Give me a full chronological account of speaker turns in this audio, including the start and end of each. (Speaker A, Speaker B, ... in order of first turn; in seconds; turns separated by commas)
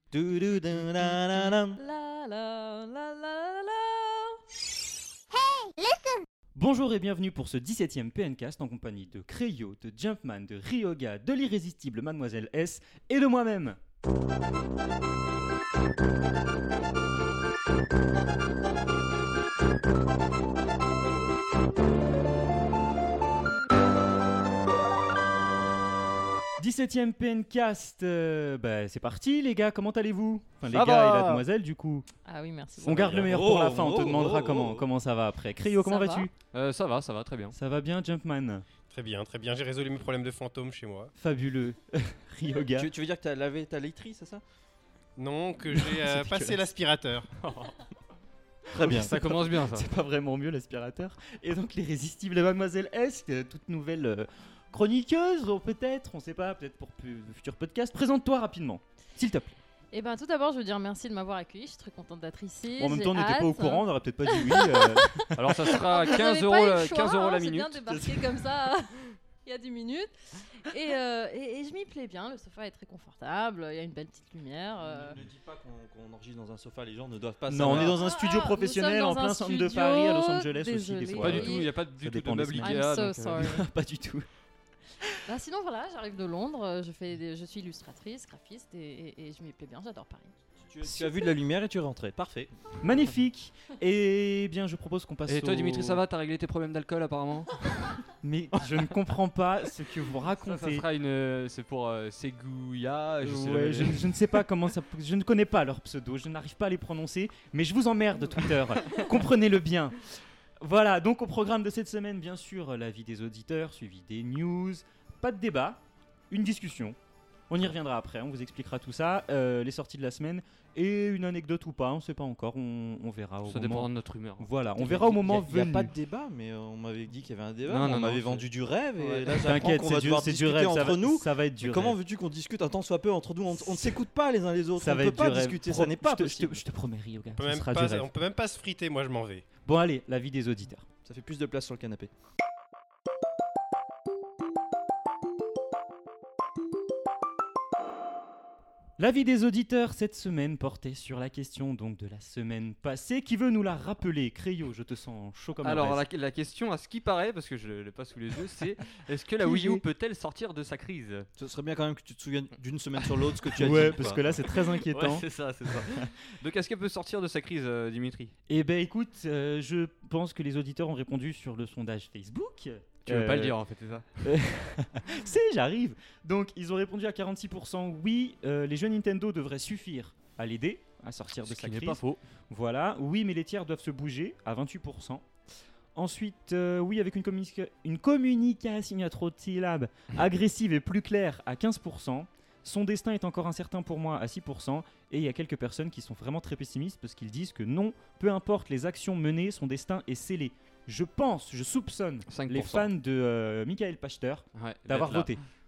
Speaker A: 0.1-1.8, Speaker B: 1.7-4.4, Speaker C: 6.5-13.8, Speaker C: 26.6-32.1, Speaker D: 30.7-31.4, Speaker B: 32.2-33.4, Speaker C: 32.8-36.3, Speaker A: 33.0-34.8, Speaker B: 35.8-36.3, Speaker D: 36.5-37.5, Speaker C: 37.5-38.6, Speaker E: 38.9-41.1, Speaker C: 41.2-42.9, Speaker A: 42.7-44.4, Speaker E: 45.2-47.3, Speaker C: 45.7-46.6, Speaker D: 47.4-47.8, Speaker A: 48.7-49.1, Speaker D: 48.7-49.9, Speaker C: 48.7-59.6, Speaker B: 59.9-75.2, Speaker C: 62.8-65.6, Speaker D: 65.3-68.0, Speaker C: 67.9-68.2, Speaker A: 74.8-78.0, Speaker C: 77.5-82.8, Speaker B: 77.7-81.7, Speaker D: 81.2-83.5, Speaker B: 82.6-83.7, Speaker C: 83.3-84.2, Speaker B: 85.2-90.3, Speaker A: 90.6-92.5, Speaker C: 90.8-91.1, Speaker C: 92.8-96.0, Speaker D: 95.3-98.0, Speaker C: 98.2-100.8, Speaker D: 100.4-104.2, Speaker C: 103.2-110.0, Speaker C: 110.6-117.0, Speaker C: 117.5-123.9, Speaker D: 123.5-125.3, Speaker C: 124.4-125.9, Speaker A: 124.9-136.6, Speaker D: 127.7-129.6, Speaker C: 129.4-132.0, Speaker C: 133.5-134.0, Speaker C: 134.8-138.1, Speaker E: 137.3-139.5, Speaker C: 139.6-140.8, Speaker A: 141.0-142.1, Speaker C: 149.0-156.0, Speaker D: 155.6-161.3, Speaker C: 159.4-159.8, Speaker A: 161.4-164.2, Speaker C: 163.5-166.1, Speaker D: 163.6-168.3, Speaker C: 168.5-173.6, Speaker D: 173.0-174.3, Speaker C: 174.2-185.2, Speaker D: 181.4-182.2, Speaker C: 185.9-205.4, Speaker D: 202.3-202.9, Speaker D: 204.6-205.4